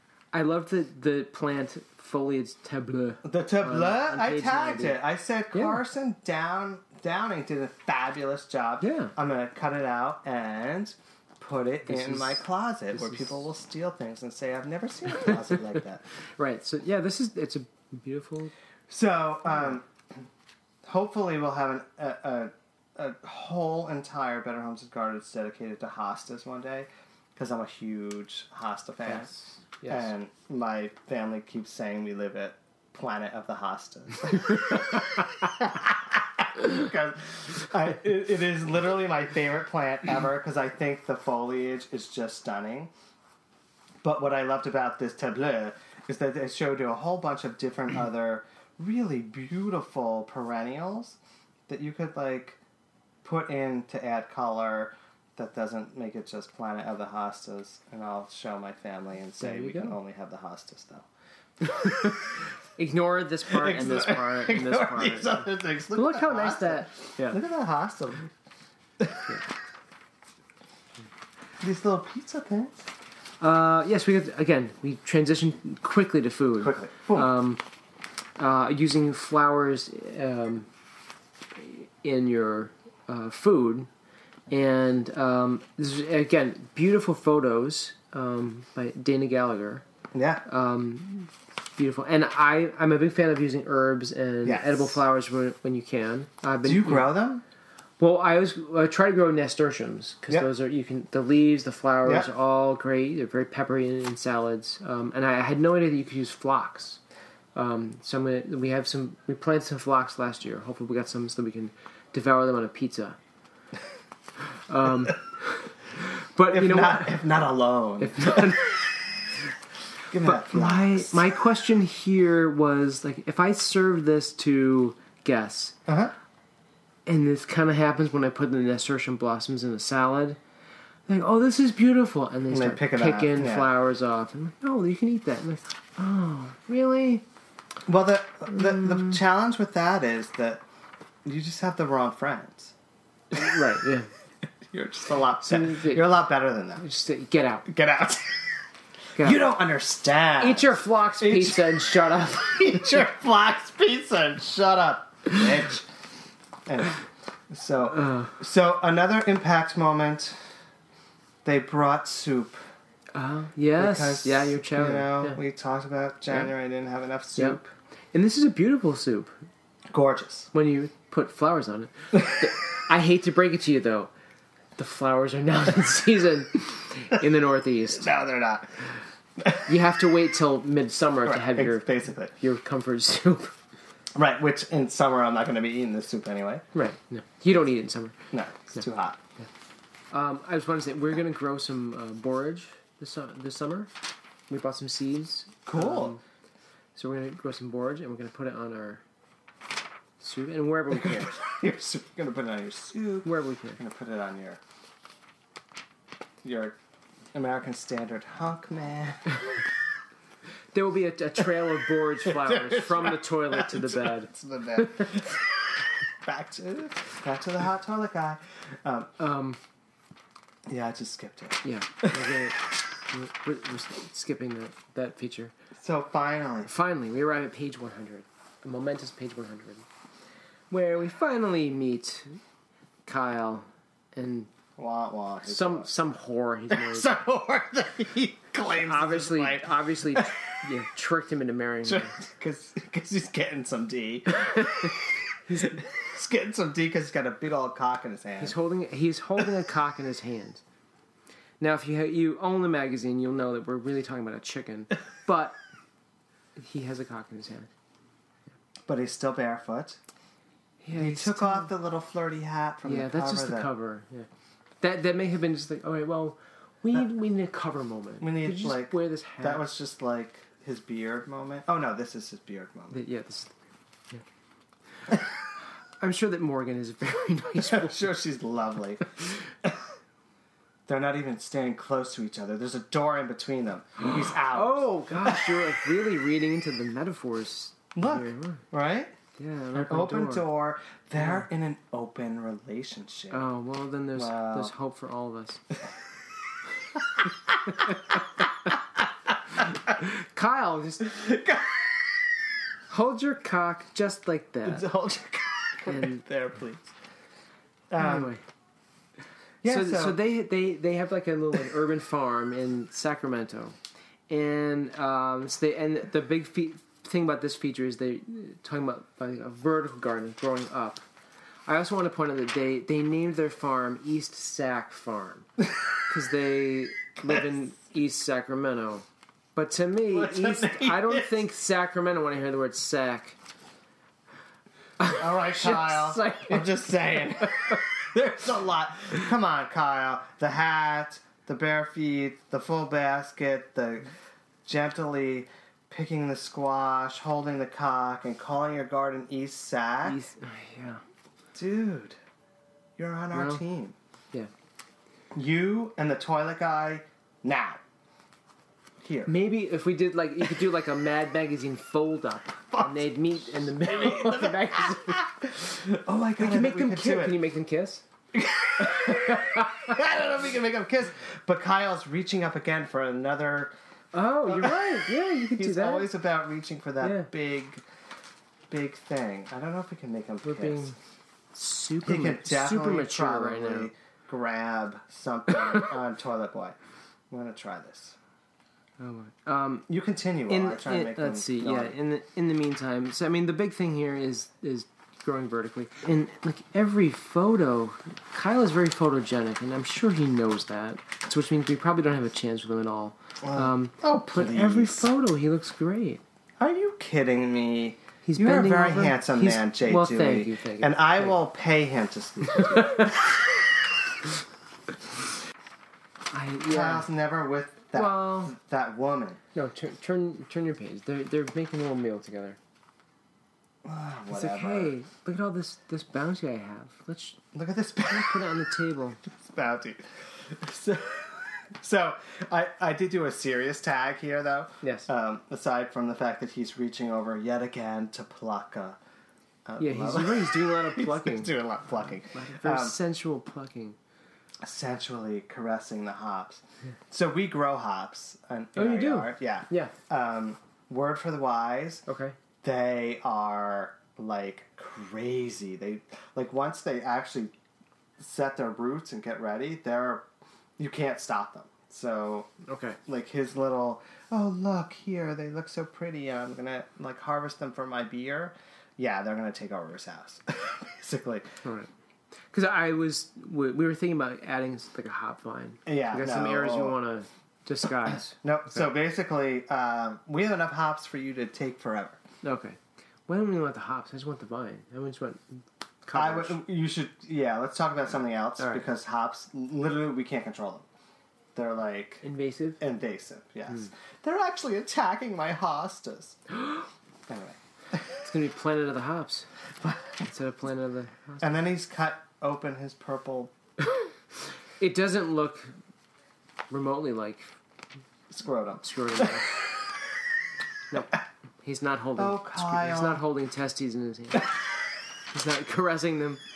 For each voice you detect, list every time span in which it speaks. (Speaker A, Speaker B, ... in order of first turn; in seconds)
Speaker A: 0.3-5.0, 5.5-5.8, 8.8-9.1, 11.9-12.4, 16.4-18.5, 29.1-30.1, 59.4-60.0, 61.6-67.4, 73.4-77.6, 78.4-80.7, 81.5-83.9, 84.5-89.8, 90.5-97.1, 98.0-107.0, 107.5-113.2, 114.6-117.2, 118.0-118.6, 120.2-125.8, 127.1-130.4, 131.1-137.2, 143.3-144.1, 145.4-146.2, 146.8-147.7, 150.4-153.0, 157.9-158.3, 163.2-165.4, 168.1-169.4, 170.5-174.1, 174.8-178.1, 179.6-183.6, 186.7-188.2, 190.1-193.9, 194.5-196.2, 197.0-199.0, 200.2-201.4, 203.2-203.8, 210.7-215.1, 219.2-219.6, 221.6-225.5, 226.7-229.9, 230.7-232.4, 233.1-234.5, 235.5-237.1, 238.7-242.1, 244.3-244.9, 245.5-245.8, 248.4-250.6, 251.6-255.6, 256.6-257.7, 260.8-261.7, 262.8-264.3, 264.8-269.7, 272.9-273.5, 276.0-278.1, 284.0-288.6, 289.4-290.4, 291.2-291.4, 293.3-295.6, 299.9-301.1, 302.9-304.9, 305.9-306.2, 308.0-308.4, 309.6-313.8, 314.3-321.0, 321.7-325.5, 326.1-333.4, 335.0-336.8, 350.1-351.0, 353.3-353.6, 359.3-365.3, 366.4-368.1, 368.8-370.0, 374.1-376.1, 377.0-377.3, 380.4-380.9, 381.5-383.9, 389.0-389.9, 390.5-406.2, 408.2-411.4, 412.6-413.2, 416.3-417.1, 417.9-418.6, 419.6-422.6, 424.3-427.4, 428.1-429.2, 434.8-435.1, 439.8-441.5, 442.3-444.0, 448.8-449.9, 452.1-452.4, 462.6-463.0, 471.6-471.9, 472.5-478.4, 482.4-486.6, 492.2-492.8, 498.2-499.5, 500.2-501.5, 504.8-505.8, 506.7-507.6, 508.8-509.5, 510.9-514.5, 515.3-516.4
Speaker B: 3.2-16.0, 18.9-19.9, 20.9-29.3, 29.9-42.9, 44.0-51.2, 51.7-52.6, 53.2-61.1, 63.5-68.3, 71.6-72.8, 76.6-77.3, 90.1-90.4, 94.4-95.0, 96.6-97.4, 116.5-119.2, 120.1-121.3, 125.9-126.1, 132.5-133.7, 137.9-140.6, 141.2-142.7, 144.7-146.8, 147.7-148.6, 149.2-155.9, 156.7-160.5, 161.4-162.6, 163.8-167.7, 169.9-170.5, 172.1-172.5, 178.0-178.8, 179.4-179.7, 181.2-182.3, 184.2-186.7, 188.3-189.2, 195.7-196.2, 200.9-204.6, 206.4-206.8, 207.3-209.6, 212.2-219.1, 220.7-222.4, 225.8-226.7, 234.8-235.9, 236.7-240.4, 241.8-248.6, 258.9-260.0, 260.9-263.7, 268.2-273.0, 277.7-279.8, 280.9-285.6, 287.9-289.2, 289.7-293.4, 294.2-294.7, 297.2-298.8, 301.0-302.3, 304.6-306.9, 307.9-308.3, 309.6-310.2, 330.1-331.4, 335.1-344.1, 344.6-350.2, 351.5-352.2, 353.0-353.9, 355.3-357.8, 359.0-359.3, 362.7-367.4, 368.3-373.7, 374.5-377.8, 378.7-380.9, 382.0-386.8, 387.3-388.2, 389.9-391.9, 403.4-405.1, 406.6-413.5, 416.7-419.4, 423.8-424.9, 427.5-428.6, 429.3-439.0, 439.7-443.0, 444.6-452.0, 452.6-457.5, 458.2-460.3, 460.8-462.5, 463.1-471.5, 475.9-477.0, 478.1-482.2, 486.1-490.9, 491.6-492.2, 492.8-496.6, 497.3-498.2, 499.8-500.2, 501.4-503.5, 508.3-509.6, 512.2-513.2